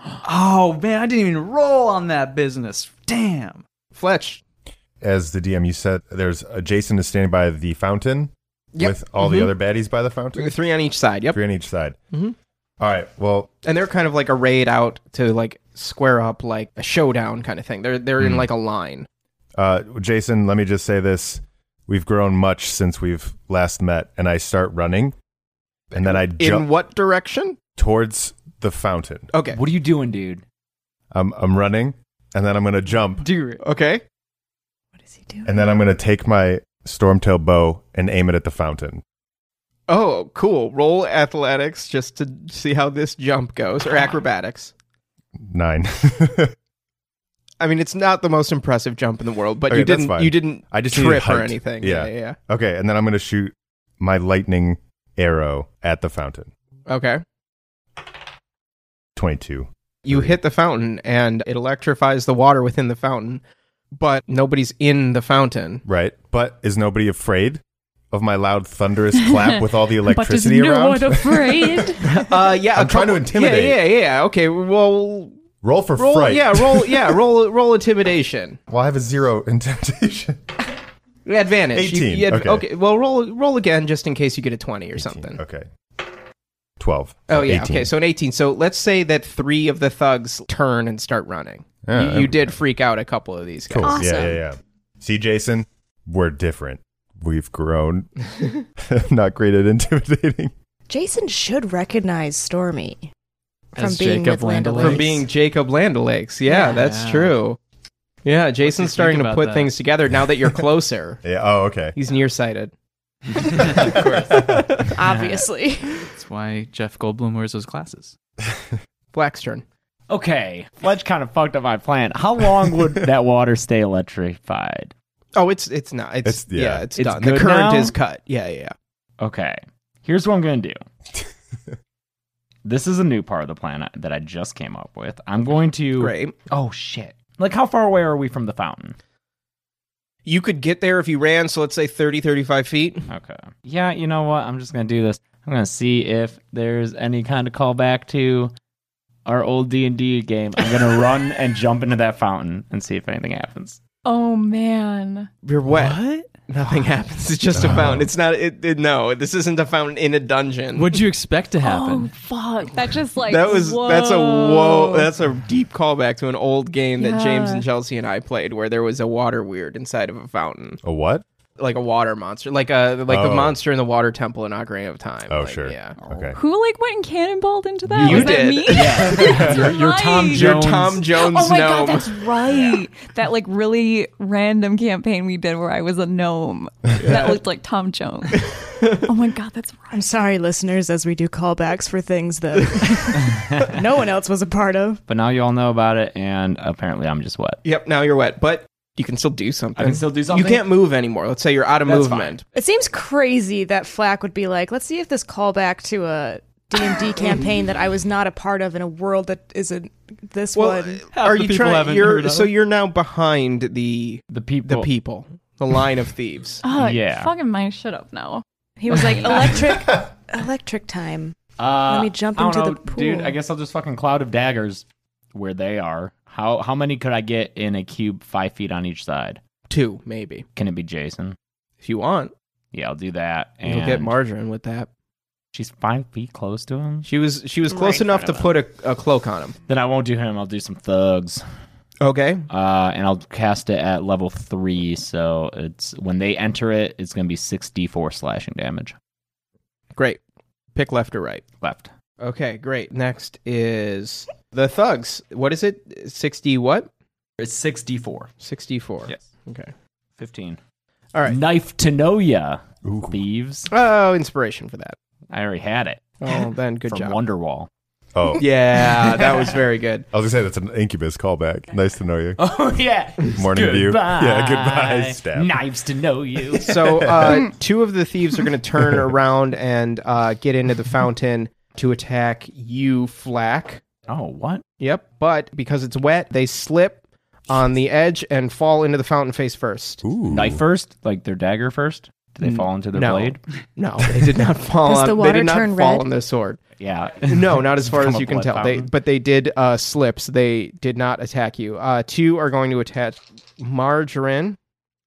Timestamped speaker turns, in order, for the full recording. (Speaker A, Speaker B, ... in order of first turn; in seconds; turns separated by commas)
Speaker A: 0.2-3.6, Speaker B: 3.9-4.4, Speaker C: 5.0-10.5, Speaker B: 8.7-9.5, Speaker B: 10.3-11.4, Speaker C: 11.3-12.0, Speaker C: 12.8-13.5, Speaker B: 13.6-19.1, Speaker C: 19.6-25.1, Speaker C: 25.9-26.7, Speaker B: 25.9-27.6, Speaker C: 27.8-29.3, Speaker B: 29.3-29.6, Speaker D: 29.5-30.4, Speaker C: 31.1-33.2, Speaker A: 33.2-33.6, Speaker B: 33.6-34.0, Speaker E: 35.0-35.5, Speaker C: 35.4-39.0, Speaker B: 39.9-44.7, Speaker C: 45.4-46.5, Speaker B: 47.6-52.4, Speaker C: 49.7-56.5, Speaker B: 56.9-57.2, Speaker C: 59.1-60.4, Speaker B: 60.0-63.4, Speaker B: 63.9-65.8, Speaker C: 65.8-67.6, Speaker C: 68.1-72.0, Speaker F: 69.2-72.2, Speaker B: 72.0-75.4, Speaker C: 72.7-73.8, Speaker C: 75.6-77.2, Speaker B: 76.0-78.6, Speaker C: 78.7-80.5, Speaker B: 81.2-85.4, Speaker C: 81.7-82.6, Speaker C: 84.9-85.7, Speaker C: 86.8-87.9, Speaker B: 87.3-94.2, Speaker C: 91.8-92.6, Speaker C: 93.7-98.1, Speaker E: 93.8-94.4, Speaker C: 98.8-100.5, Speaker E: 100.9-103.1, Speaker E: 103.8-105.2, Speaker A: 103.8-105.2, Speaker B: 104.8-107.6, Speaker E: 106.5-106.8, Speaker A: 106.7-107.4, Speaker B: 108.2-111.2, Speaker A: 108.6-109.7, Speaker C: 111.2-112.0, Speaker B: 112.0-112.7, Speaker B: 113.3-114.9, Speaker A: 113.6-114.5, Speaker E: 114.9-116.1, Speaker D: 115.0-115.4, Speaker A: 116.1-118.1, Speaker B: 119.1-119.6, Speaker D: 120.1-124.9, Speaker B: 125.3-128.7, Speaker C: 126.2-126.8, Speaker D: 127.0-127.9, Speaker D: 129.2-130.8, Speaker D: 132.6-138.9, Speaker B: 136.0-136.4, Speaker B: 140.2-143.1, Speaker D: 143.1-148.5, Speaker D: 149.2-153.8, Speaker F: 154.0-155.3, Speaker B: 155.4-161.0, Speaker A: 155.7-156.3, Speaker C: 157.5-158.1, Speaker A: 160.7-162.1, Speaker F: 161.6-165.1, Speaker B: 163.2-170.8, Speaker F: 167.0-167.6, Speaker C: 170.8-171.2, Speaker B: 171.6-175.9, Speaker C: 173.1-173.6, Speaker C: 175.3-176.4, Speaker D: 176.0-176.3, Speaker F: 176.3-188.5, Speaker B: 177.9-179.7, Speaker D: 177.9-181.1, Speaker B: 180.3-182.2, Speaker B: 187.0-187.4, Speaker B: 188.4-189.1, Speaker F: 189.0-190.0, Speaker E: 189.9-195.0, Speaker D: 195.1-197.6, Speaker B: 197.6-202.4, Speaker D: 199.8-200.7, Speaker D: 201.8-202.3, Speaker E: 202.5-211.0, Speaker B: 210.5-216.6, Speaker A: 211.1-212.5, Speaker D: 214.3-214.9, Speaker F: 216.6-219.7, Speaker D: 216.8-217.3, Speaker E: 218.8-223.3, Speaker D: 221.6-229.4, Speaker B: 229.7-230.4, Speaker D: 230.5-231.3, Speaker B: 231.8-232.3, Speaker D: 232.7-234.1, Speaker B: 233.6-234.9, Speaker D: 235.5-237.1, Speaker B: 237.0-239.6, Speaker E: 237.7-238.5, Speaker D: 239.7-241.4, Speaker B: 242.0-242.5, Speaker D: 242.5-248.9, Speaker B: 249.9-250.2, Speaker B: 250.7-251.4, Speaker D: 251.6-251.9, Speaker B: 252.2-256.9, Speaker D: 257.4-258.3, Speaker B: 258.4-259.7, Speaker D: 260.2-260.6, Speaker D: 261.2-263.7, Speaker C: 262.8-263.2, Speaker B: 263.7-264.9, Speaker D: 265.3-266.2, Speaker B: 266.2-267.2, Speaker D: 266.9-267.7, Speaker C: 268.1-268.4, Speaker B: 268.4-270.1, Speaker C: 270.1-272.4, Speaker D: 272.4-276.9, Speaker C: 273.3-275.6, Speaker B: 276.5-283.8, Speaker C: 276.8-277.5, Speaker C: 278.8-279.1, Speaker D: 284.1-284.6, Speaker B: 284.8-290.0, Speaker C: 290.0-290.6, Speaker D: 290.3-293.4, Speaker B: 292.4-296.6, Speaker E: 294.8-296.1, Speaker D: 296.8-298.9, Speaker B: 297.2-304.6